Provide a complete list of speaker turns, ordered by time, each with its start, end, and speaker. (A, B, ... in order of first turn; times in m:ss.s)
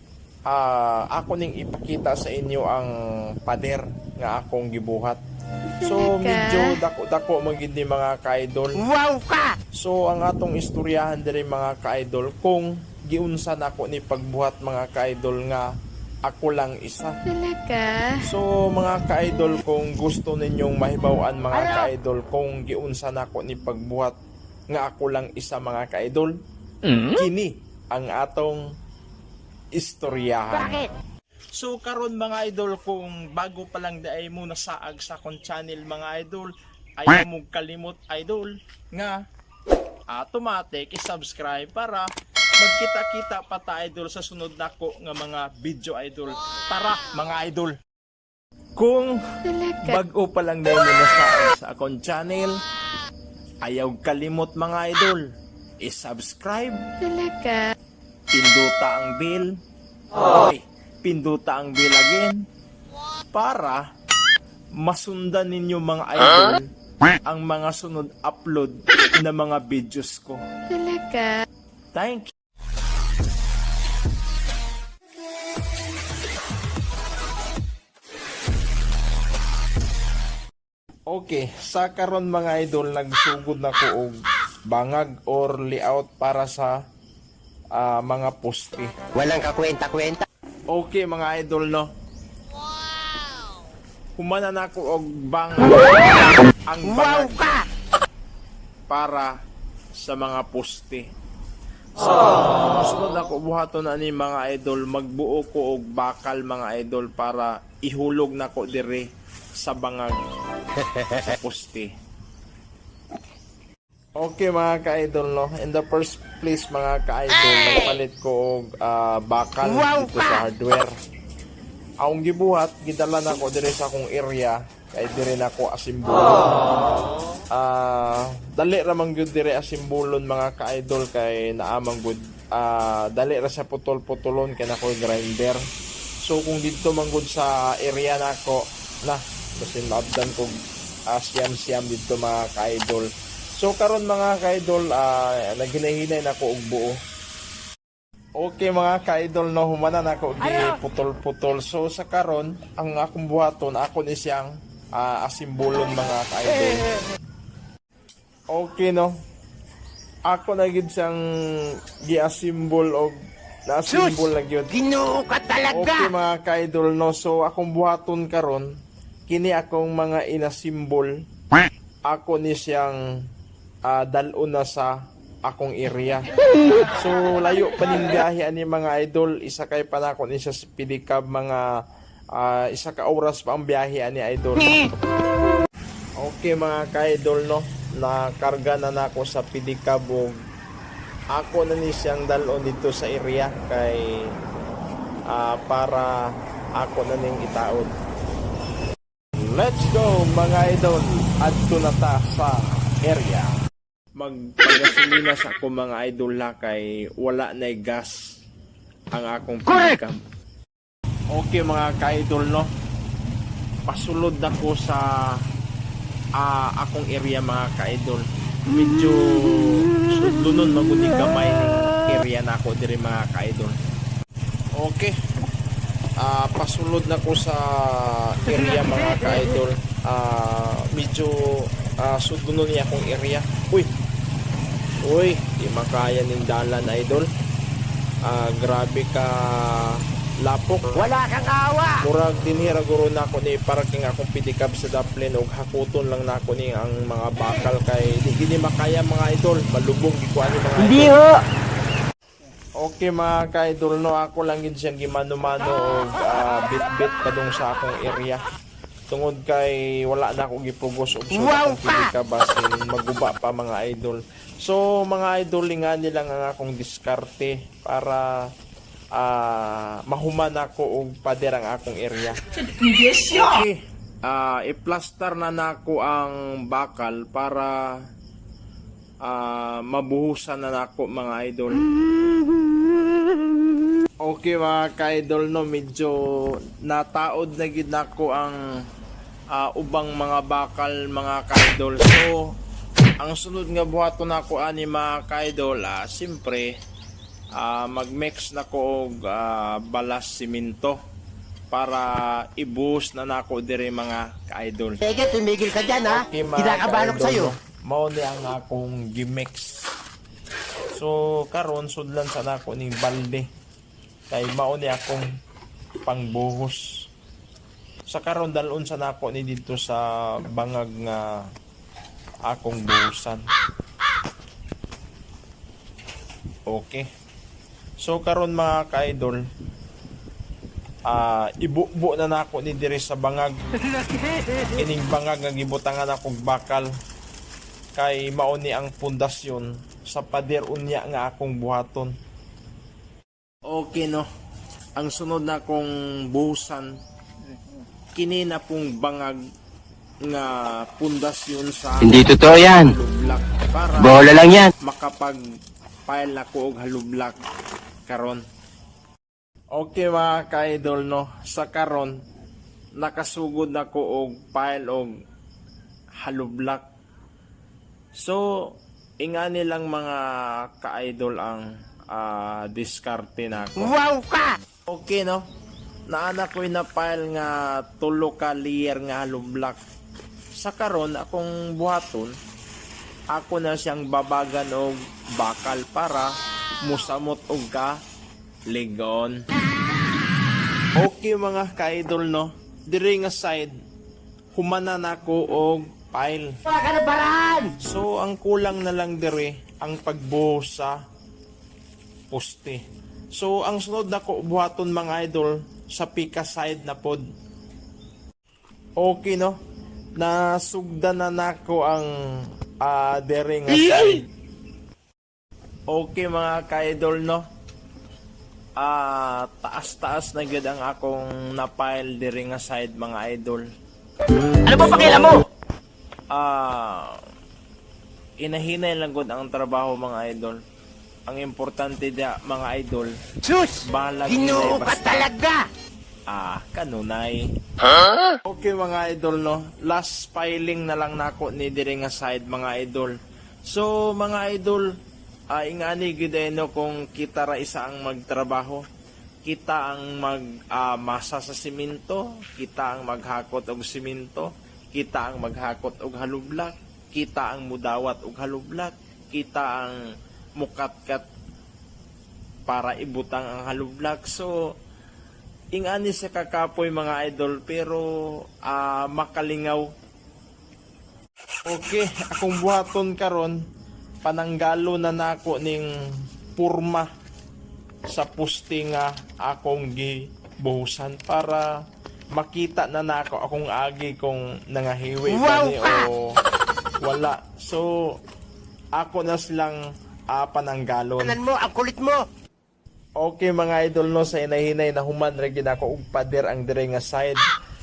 0:00.5-0:05.2 A
0:05.8-0:08.8 A
0:05.9-0:06.7 B
0:08.8-0:09.6 C
0:09.7-0:15.7 A
0:16.2-0:17.2 A
0:17.2-0:18.2 B
0:18.2-0:24.2 A
0:21.6-0:21.9 C
0:24.7-0:26.4 A
0:27.0-0:28.6 A
0:29.8-0:30.8 A
0:30.5-0:30.9 C
0:31.5-0:39.2 A
0:40.1-0:47.8 A
0:48.8-0:52.6 A
0:49.5-0:50.0 B
0:53.6-0:56.9 A
0:57.0-0:57.7 B
0:58.3-0:59.6 A
1:00.2-1:02.4 A
1:03.3-1:03.9 A
1:04.7-1:06.7 A
1:07.2-1:10.4 A
1:10.7-1:11.4 B
1:11.9-1:12.3 A
1:21.1-1:26.8 A
1:27.7-1:29.0 A
1:29.1-1:30.2 C
1:30.7-1:31.9 A
1:34.2-1:37.6 A
1:36.8-1:37.6 C
1:38.9-1:39.3 A
1:39.9-1:41.1 A
1:42.0-1:50.2 A
1:51.0-1:51.9 A
1:54.2-2:00.9 A
1:59.6-2:00.4 C
2:02.0-2:06.6 A
2:07.5-2:15.6 A
2:16.2-2:20.6 A
2:21.1-2:27.0 A
2:28.4-2:36.9 A
2:38.5-2:39.2 A
2:40.3-2:44.8 A
2:44.0-2:46.1 C
2:45.7-2:48.7 A
2:49.3-2:51.1 A
2:52.1-2:53.0 A
2:53.9-2:54.9 A
2:55.4-2:56.3 A
2:56.9-3:01.6 A
3:02.3-3:04.8 A
3:06.2-3:10.4 A
3:11.3-3:14.3 A
3:15.3-3:16.2 A
3:16.8-3:17.9 A
3:19.3-3:23.6 A
3:24.2-3:28.4 A
3:29.1-3:30.2 A
3:31.3-3:32.7 A
3:33.8-3:35.4 A
3:36.4-3:43.8 A
3:44.8-3:45.2 A
3:46.2-3:53.9 A
3:55.0-3:57.3 A
3:58.2-4:00.9 A
4:00.9-4:02.0 C
4:02.0-4:11.2 A
4:10.8-4:11.4 C
4:12.8-4:18.4 A
4:19.1-4:28.5 A
4:21.3-4:22.1 C
4:29.1-4:37.9 A
4:39.2-4:41.9 A
4:44.2-4:48.6 A
4:49.5-4:52.5 A
4:53.2-4:56.7 A
4:57.5-5:01.0 A
5:01.7-5:05.0 A
5:05.0-5:07.5 C
5:06.1-5:09.9 A
5:10.9-5:13.5 A
5:14.3-5:15.3 A
5:16.0-5:17.1 A
5:18.1-5:21.4 A
5:22.5-5:23.4 A
5:26.7-5:27.1 A
5:28.0-5:29.4 A
5:31.1-5:33.6 A
5:34.7-5:36.9 A
5:38.0-5:42.1 A
5:43.6-5:44.3 A
5:45.0-5:47.0 A
5:48.1-5:49.4 A
5:50.2-5:55.4 A
5:52.0-5:52.9 C
5:54.0-5:54.7 C
5:56.1-5:57.4 A
5:58.1-5:58.4 A
5:59.7-6:02.2 A
6:03.0-6:05.1 A
6:06.2-6:06.8 A
6:08.2-6:13.9 A
6:13.8-6:14.6 C
6:14.9-6:15.4 A
6:16.1-6:19.8 A
6:20.5-6:22.4 A
6:23.3-6:28.0 A
6:28.7-6:29.4 A
6:30.9-6:33.8 A
6:34.5-6:36.6 A
6:36.6-6:37.8 C
6:37.8-6:41.0 A
6:42.3-6:42.8 A
6:43.3-6:47.2 A
6:49.0-6:49.6 A
6:50.2-6:54.3 A
6:55.9-6:57.5 A
6:58.8-7:03.7 A
7:04.6-7:05.4 C
7:04.7-7:05.4 A
7:06.3-7:07.2 A
7:08.4-7:10.6 A
7:11.3-7:13.1 A
7:13.4-7:15.7 C
7:13.8-7:15.3 A
7:16.3-7:17.5 A
7:18.4-7:23.1 A
7:23.6-7:24.9 A
7:25.5-7:28.8 A
7:29.4-7:40.0 A
7:40.6-7:41.2 A
7:42.7-7:44.6 A
7:45.7-7:49.9 A
7:51.7-7:53.6 A
7:54.2-7:55.9 A
7:56.5-7:57.1 A
7:58.1-8:01.7 A
8:02.3-8:06.4 A
8:05.3-8:06.1 C
8:07.0-8:08.2 A
8:09.0-8:09.8 A
8:10.3-8:11.4 A
8:11.2-8:12.2 C
8:13.2-8:17.4 A